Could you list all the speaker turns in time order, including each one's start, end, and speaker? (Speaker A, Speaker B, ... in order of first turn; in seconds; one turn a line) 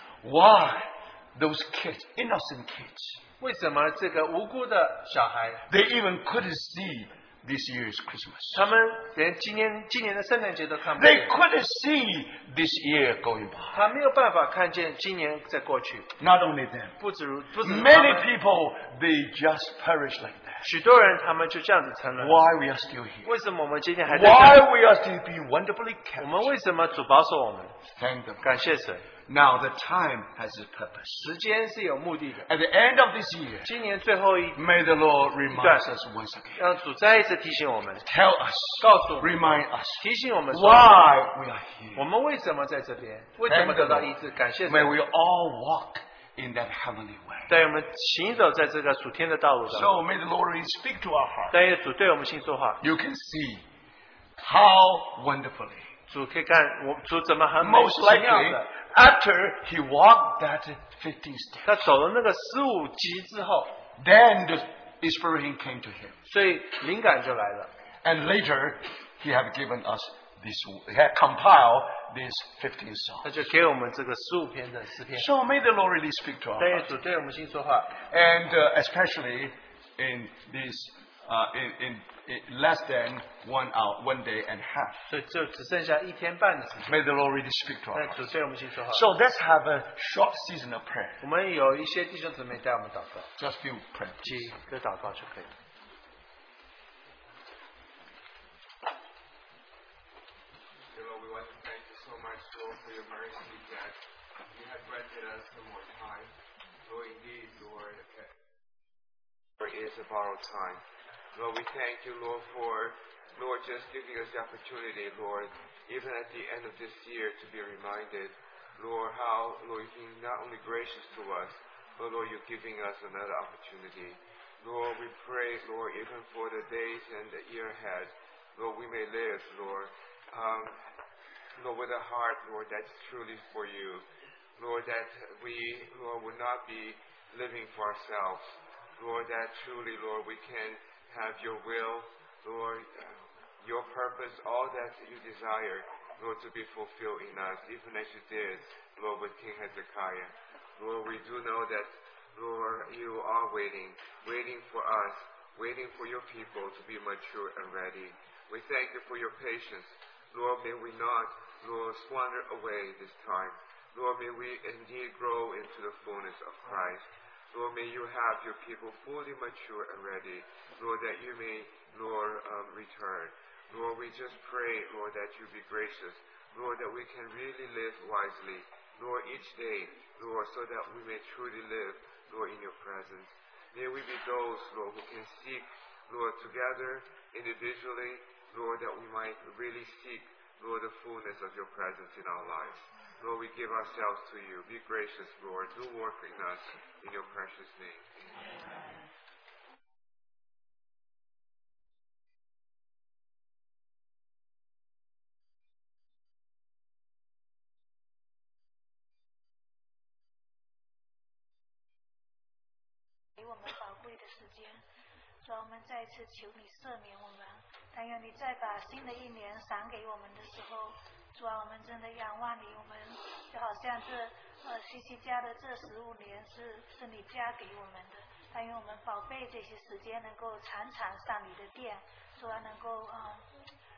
Speaker A: 0.2-3.2
Speaker B: 3.4-5.7
Speaker A: 5.7-8.7
Speaker B: 8.5-11.3
Speaker A: 10.9-13.8
Speaker B: 13.7-16.1
Speaker A: 16.2-16.9
Speaker B: 17.0-18.3
Speaker A: 17.6-20.7
Speaker B: 20.6-22.4
Speaker A: 22.2-23.3
Speaker B: 23.2-24.7
Speaker A: 24.1-26.5
Speaker B: 26.2-27.8
Speaker A: 27.9-28.6
Speaker B: 28.4-29.0
Speaker A: 29.3-31.3
Speaker B: 31.2-32.5
Speaker A: 32.5-33.7
Speaker B: 33.7-34.6
Speaker A: 34.5-36.6
Speaker B: 35.5-35.9
Speaker B: 36.6-38.1
Speaker A: 38.0-42.1
Speaker B: 38.8-41.0
Speaker B: 42.0-45.0
Speaker A: 43.5-44.1
Speaker A: 44.7-47.6
Speaker B: 47.5-49.9
Speaker A: 49.7-51.6
Speaker B: 51.5-52.8
Speaker A: 52.8-53.6
Speaker A: 54.4-55.9
Speaker B: 56.1-58.6
Speaker A: 57.6-61.9
Speaker B: 61.6-63.8
Speaker A: 64.0-66.2
Speaker B: 66.3-67.7
Speaker A: 68.0-73.3
Speaker B: 73.2-75.3
Speaker A: 75.1-76.9
Speaker B: 76.6-78.0
Speaker A: 78.0-85.0
Speaker B: 85.1-87.0
Speaker A: 86.9-88.3
Speaker B: 87.9-89.0
Speaker A: 88.9-91.2
Speaker B: 91.2-93.3
Speaker A: 93.4-94.5
Speaker B: 94.2-95.5
Speaker C: 100.9-104.0
Speaker C: 104.5-106.3
Speaker C: 106.8-108.4
Speaker C: 109.6-110.8
Speaker C: 111.3-130.8
Speaker C: 131.6-134.0
Speaker C: 134.6-198.1
Speaker D: 213.4-214.8
Speaker D: 215.4-233.5